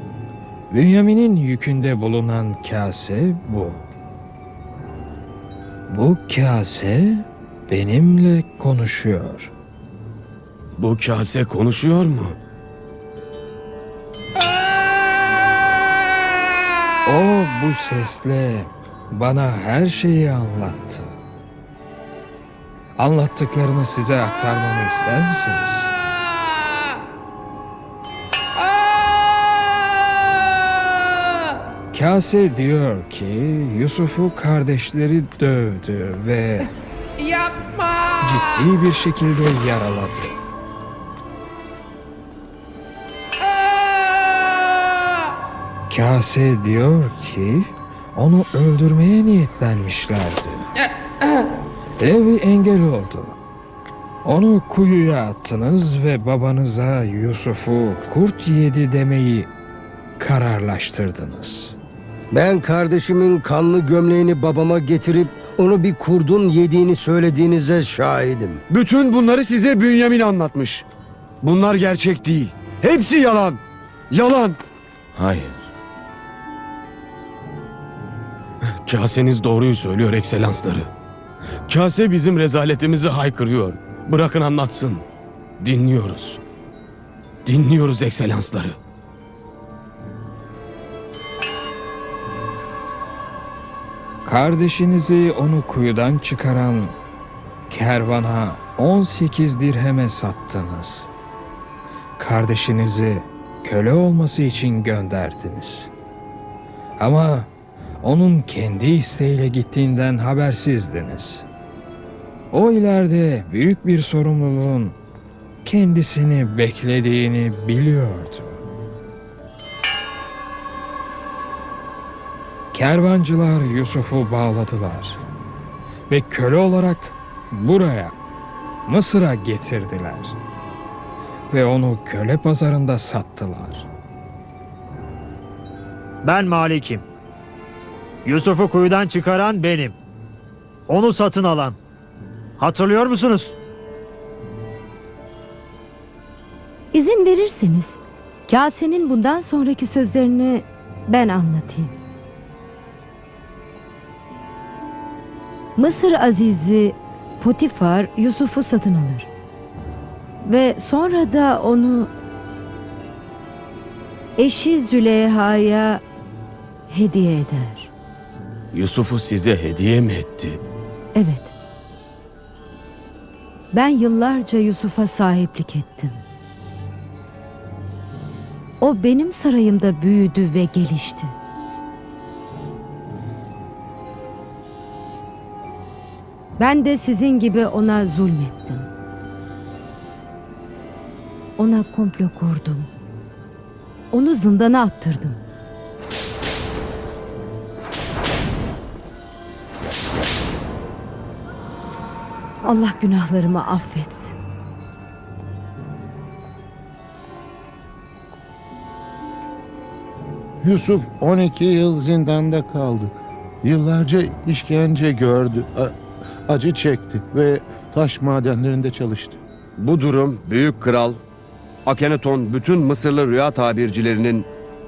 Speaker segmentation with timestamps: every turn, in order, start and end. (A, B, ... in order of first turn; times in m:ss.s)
0:00.7-0:03.8 A
0:05.9-0:09.5 A
0:10.8-0:12.4 B
0:17.0-0:21.1 A
0:23.0-0:25.9 A
0:31.9-0:36.7 A
0:38.2-0:40.4 A
0:45.9-0:50.7 A
0:52.0-0:53.4 A
0:54.2-0:59.5 A
1:00.2-1:01.8 A
1:02.3-1:08.6 C
1:08.7-1:10.8 D
1:11.4-1:14.6 D
1:15.2-1:15.7 B
1:18.8-1:20.9 B
1:21.7-1:25.0 B
1:25.6-1:26.4 B
1:27.4-1:28.8 B
1:34.2-1:37.0 A
1:37.7-1:41.1 A
1:42.2-1:45.9 A
1:47.0-1:47.5 A
1:48.0-1:51.4 A
1:52.5-1:55.0 A
1:55.6-1:58.6 A
2:02.7-2:05.2 A
2:06.1-2:08.2 A
2:08.8-2:10.4 A
2:11.5-2:13.9 A
2:16.2-2:17.0 E
2:18.2-2:20.0 E
2:20.9-2:21.8 E
2:22.6-2:23.6 E
2:26.9-2:31.9 F
2:35.8-2:39.3 F
2:40.4-2:42.1 F
2:44.4-2:46.0 F
2:46.9-2:47.9 F
2:48.7-2:50.6 B
2:51.1-2:51.5 F
2:53.7-2:56.2 F
2:58.8-3:01.3 F
3:06.6-3:08.9 F
3:11.6-3:12.9 F
3:14.1-3:15.4 F
3:22.6-3:24.3 F
3:30.6-3:36.0 G
3:36.5-3:39.4 G
3:39.8-3:41.2 D
3:41.8-3:44.5 D